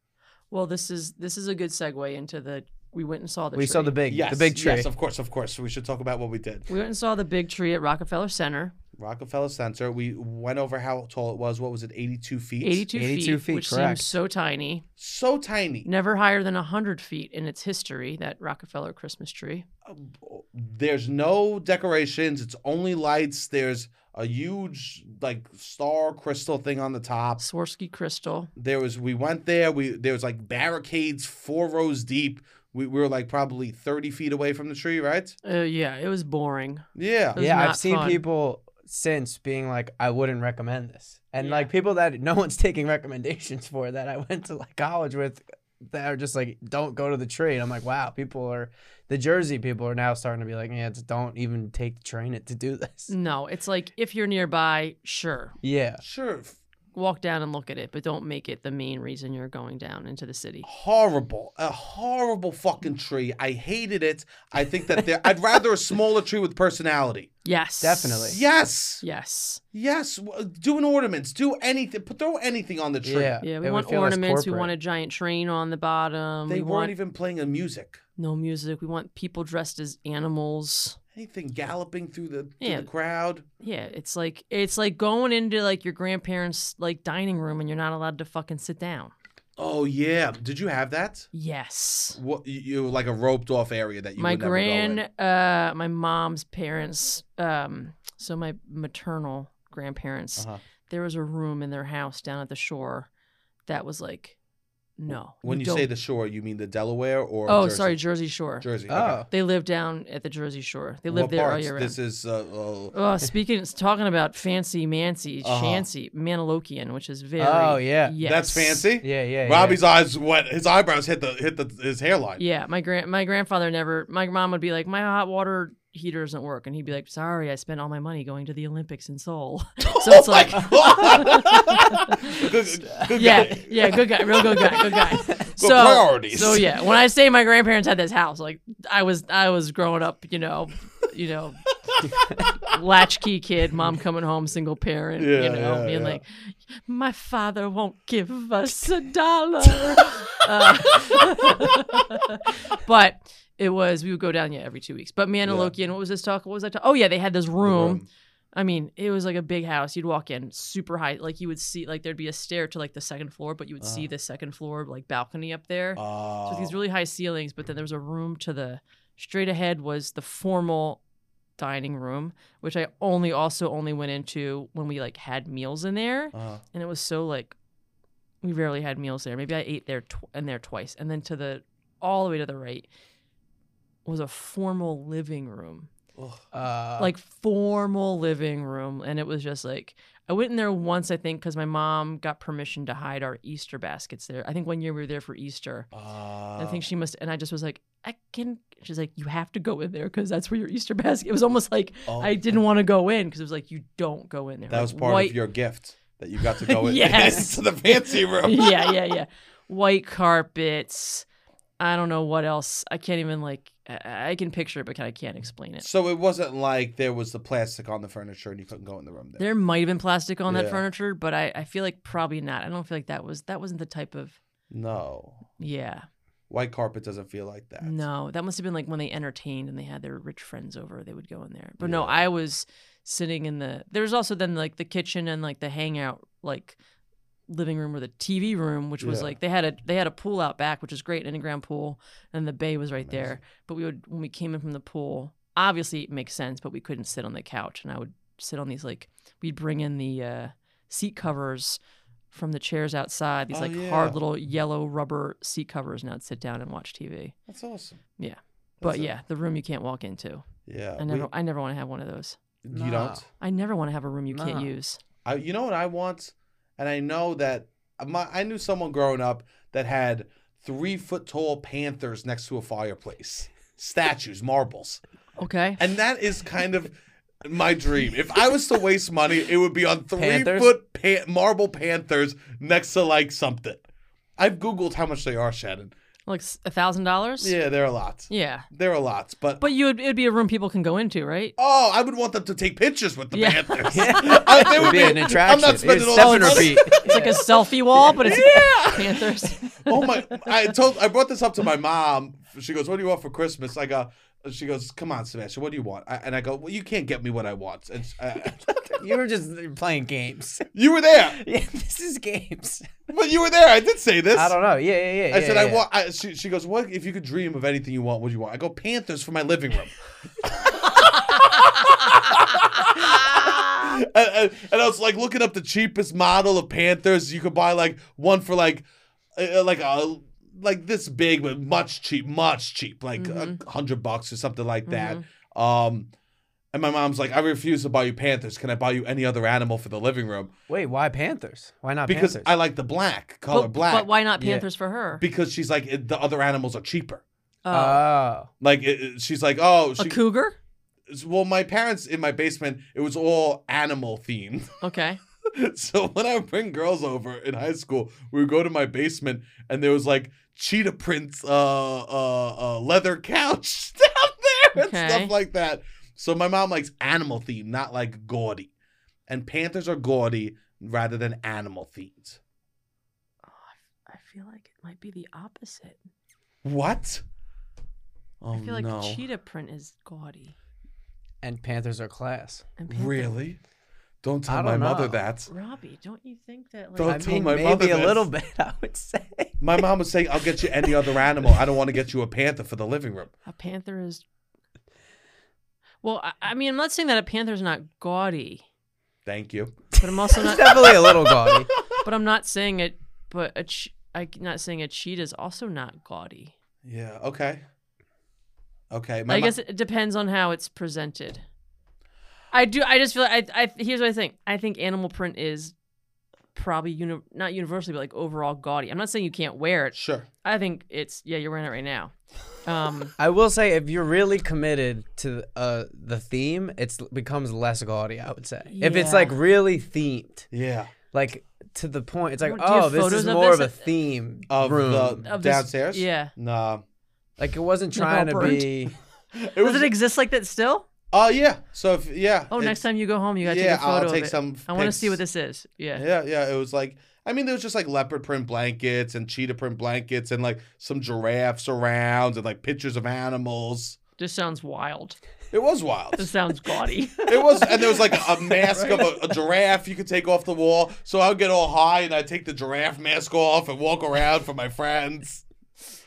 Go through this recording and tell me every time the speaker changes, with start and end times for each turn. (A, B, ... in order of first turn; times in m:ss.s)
0:00.5-0:04.0 A
0:03.5-0:04.9 B
0:04.1-0:06.7 C
0:06.7-0:08.7 A
0:09.0-0:12.9 C
0:12.6-0:14.8 A
0:12.9-0:14.2 B
0:15.0-0:15.9 C
0:15.8-0:19.7 A
0:19.9-0:27.4 C
0:27.4-0:28.5 A
0:28.6-0:35.4 C
0:35.4-0:38.2 A
0:37.0-0:37.4 C
0:37.4-0:53.1 B
0:41.4-0:41.7 A
0:53.1-0:55.6 A
0:55.6-0:56.0 B
0:56.0-0:56.6 C
0:56.9-1:00.7 A
1:00.6-1:07.3 C
1:07.4-1:08.4 A
1:07.8-1:08.4 B
1:08.3-1:09.0 C
1:09.0-1:09.6 A
1:09.7-1:13.4 C
1:13.0-1:14.7 B
1:13.4-1:16.9 A
1:16.5-1:18.0 C
1:18.2-1:21.0 A
1:21.1-1:23.4 C
1:22.6-1:22.9 A
1:23.6-1:29.1 A
1:29.6-1:31.3 C
1:31.3-1:32.2 A
1:32.2-1:35.0 C
1:34.2-1:43.1 A
1:43.7-1:44.4 A
1:45.0-1:45.9 A
1:45.1-1:48.0 C
1:47.5-1:48.7 A
1:48.6-1:49.2 C
1:48.9-1:49.3 B
1:49.3-1:52.0 A
1:51.1-1:52.9 C
1:52.9-1:58.9 A
1:55.4-1:55.9 C
1:57.4-1:58.2 B
1:58.2-2:02.4 C
1:59.0-1:59.8 B
2:02.4-2:12.5 A
2:09.8-2:16.9 C
2:13.1-2:21.6 A
2:22.7-2:38.0 A
2:25.2-2:26.2 C
2:29.8-2:30.4 C
2:35.4-2:35.7 C
2:37.6-2:38.1 C
2:38.6-2:51.0 A
2:43.8-2:44.1 C
2:46.0-2:46.8 C
2:51.6-2:57.6 A
2:56.3-2:56.6 C
2:58.4-3:02.9 A
3:04.0-3:05.9 A
3:06.2-3:06.4 C
3:06.5-3:07.1 B
3:07.0-3:15.9 A
3:15.9-3:16.8 C
3:16.6-3:25.4 A
3:22.1-3:22.6 C
3:24.7-3:28.9 C
3:26.4-3:31.3 A
3:31.8-3:35.9 A
3:35.8-3:39.5 C
3:39.4-3:44.4 A
3:40.5-3:40.8 C
3:44.7-3:45.4 C
3:45.6-3:46.1 A
3:46.5-3:48.0 C
3:47.8-3:56.8 A
3:51.8-3:52.2 C
3:57.5-4:11.8 A
3:59.0-3:59.3 C
4:03.1-4:03.4 C
4:12.3-4:17.4 A
4:13.5-4:14.2 C
4:17.5-4:18.0 C
4:18.2-4:20.5 A
4:18.8-4:19.1 C
4:20.7-4:21.3 C
4:21.0-4:22.4 A
4:22.6-4:23.2 C
4:22.7-4:23.2 B
4:23.4-4:25.0 A
4:24.3-4:24.7 B
4:25.2-4:35.0 C
4:35.4-4:35.8 A
4:35.8-4:43.8 C
4:40.2-4:40.7 B
4:44.4-4:45.9 C
4:46.3-4:47.6 A
4:47.4-4:49.6 C
4:48.3-4:48.7 A
4:49.6-4:51.6 A
4:51.6-4:57.4 C
4:53.3-4:55.1 A
4:53.9-4:57.4 B
4:56.2-5:00.4 A
4:58.1-5:09.1 C
5:08.9-5:10.7 B
5:10.7-5:11.4 C
5:11.3-5:12.9 B
5:13.1-5:14.6 C
5:14.3-5:15.8 B
5:15.3-5:36.1 C
5:33.2-5:33.6 A
5:34.9-5:35.2 A
5:36.7-5:40.5 C
5:40.7-5:42.5 B
5:42.1-5:44.1 C
5:43.5-5:45.2 A
5:44.4-5:44.6 B
5:45.2-5:47.2 C
5:47.6-5:48.1 A
5:47.7-5:48.5 B
5:48.6-5:50.2 C
5:50.0-5:50.6 A
5:51.1-5:54.8 C
5:54.8-5:55.2 A
5:55.4-6:08.7 C
6:04.7-6:05.3 A
6:09.3-6:12.4 C
6:13.4-6:16.0 A
6:16.6-6:17.2 C
6:18.4-6:19.2 C
6:18.5-6:20.6 A
6:21.4-6:22.7 B
6:22.8-6:23.3 A
6:22.9-6:23.6 C
6:24.2-6:25.5 C
6:24.5-6:25.2 B
6:25.5-6:27.4 A
6:27.0-6:28.3 C
6:27.0-6:29.9 B
6:29.6-6:33.3 C
6:30.8-6:31.2 B
6:33.5-6:34.2 A
6:36.0-6:38.6 A
6:39.2-6:40.0 C
6:40.0-6:41.2 A
6:40.3-6:41.7 B
6:40.8-6:41.3 C
6:42.0-6:46.5 A
6:46.8-6:47.6 C
6:48.9-6:49.6 C
6:49.3-6:51.4 A
6:52.5-6:55.8 A
6:56.5-7:03.1 A
6:59.9-7:00.3 C
7:03.2-7:10.5 B
7:08.7-7:09.4 A
7:10.5-7:10.9 C
7:11.1-7:15.2 B
7:12.4-7:13.8 A
7:14.5-7:16.8 C
7:15.2-7:16.3 A
7:17.4-7:18.9 B
7:17.9-7:18.7 A
7:19.4-7:19.9 C
7:19.5-7:20.9 A
7:21.1-7:22.8 C
7:22.5-7:26.0 A
7:23.4-7:25.2 C
7:26.0-7:34.0 C
7:34.2-7:35.2 A
7:35.5-7:36.3 C
7:36.2-7:39.2 A
7:37.2-7:45.4 C